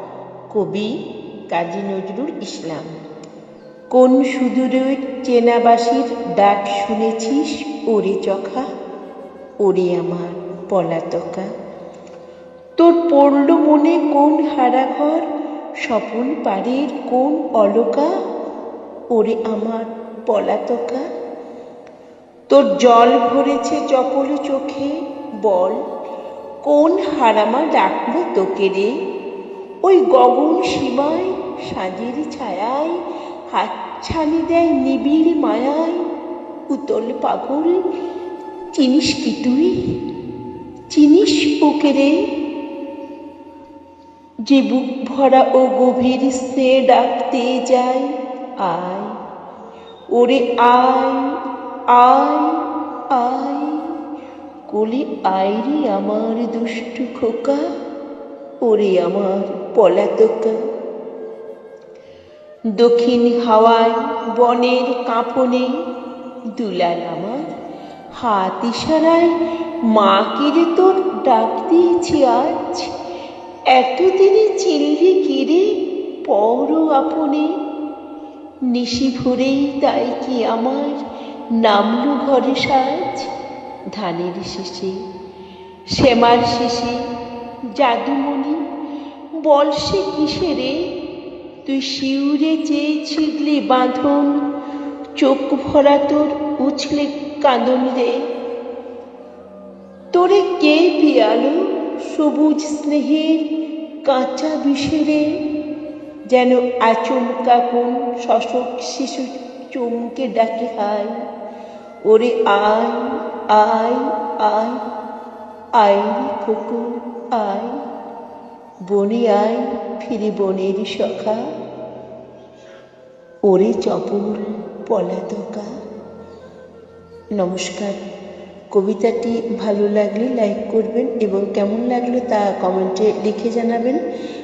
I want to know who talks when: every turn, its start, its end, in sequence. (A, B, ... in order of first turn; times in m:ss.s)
0:00.5-0:00.9 A
0:01.5-0:02.9 A
0:03.9-0:08.6 A
0:09.6-0:11.5 A
0:12.8-0:15.2 A
0:15.8-0:18.1 A
0:19.1-0:21.0 A
0:22.5-0:25.8 A
0:26.6-0:28.9 A
0:29.8-0:36.0 A
0:36.7-0:37.8 A
0:38.7-0:39.8 A
0:40.9-0:42.2 A
0:44.5-0:49.1 A
0:50.1-0:51.3 A
0:51.9-0:53.9 A
0:54.7-0:57.6 A
0:58.6-1:00.6 A
1:02.8-1:05.7 A
1:06.6-1:07.5 A
1:08.1-1:09.3 A
1:09.9-1:12.9 A
1:13.7-1:15.7 A
1:16.3-1:17.5 A
1:18.7-1:21.0 A
1:21.6-1:23.3 A
1:23.9-1:25.0 A
1:25.9-1:27.0 A
1:27.7-1:28.6 A
1:29.4-1:30.8 A
1:31.6-1:34.4 A
1:35.2-1:38.2 A
1:40.1-1:43.4 A
1:44.0-1:45.3 A
1:46.3-1:51.2 A
1:52.1-1:54.8 A
1:55.8-1:57.8 A
1:58.8-2:01.4 A
2:03.5-2:05.7 A
2:07.4-2:08.0 A
2:08.7-2:14.0 A